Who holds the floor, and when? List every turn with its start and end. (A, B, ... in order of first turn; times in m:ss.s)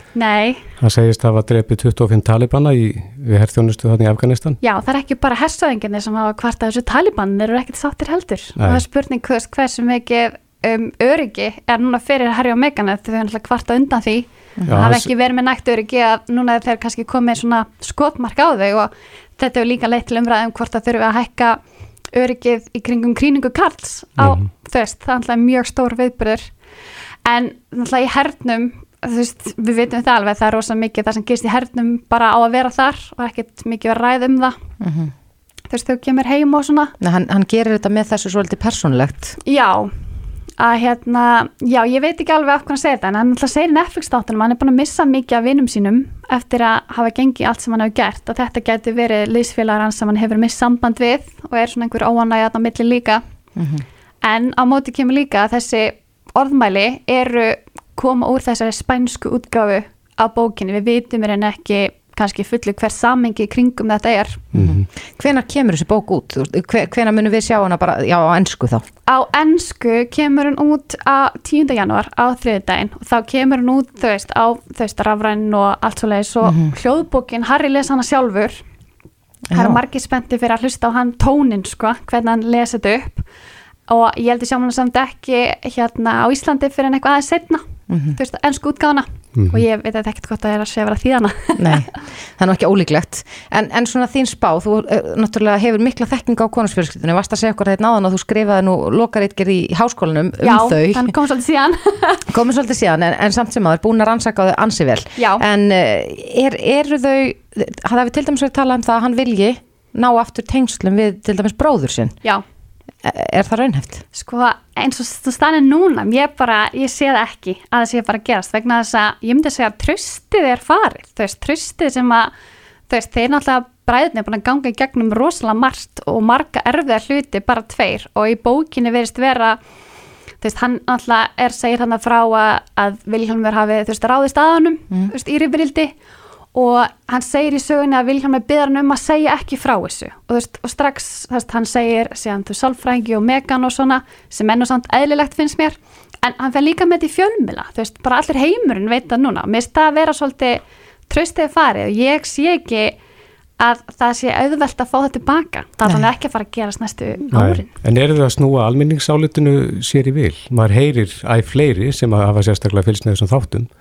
0:00.1-0:00.6 A
0:00.8-0:04.6 B
0:04.6-0:21.6 A
0:08.6-0:08.8 B
0:14.7-0:15.1 B
0:22.1-0:26.5 A
0:24.2-0:24.4 B
0:27.2-0:34.6 A
0:34.8-0:35.1 C
0:35.7-0:36.9 A
0:37.0-0:39.4 C
0:39.4-0:39.9 A
0:40.6-0:53.2 A
0:53.6-0:53.8 C
0:54.2-1:04.4 A
1:04.5-1:04.8 B
1:04.6-1:08.8 C
1:09.1-1:18.6 A
1:16.4-1:16.7 C
1:19.5-1:19.8 C
1:19.5-1:23.2 A
1:23.9-1:31.8 A
1:27.9-1:28.2 C
1:29.3-1:29.6 B
1:31.6-1:41.1 C
1:40.4-1:42.2 A
1:42.3-1:52.2 C
1:45.2-1:45.4 A
1:53.0-1:54.0 C
1:54.1-2:02.3 A
2:02.9-2:09.6 A
2:10.4-2:15.9 A
2:16.5-2:33.0 A
2:33.6-2:37.7 A
2:37.3-2:43.7 B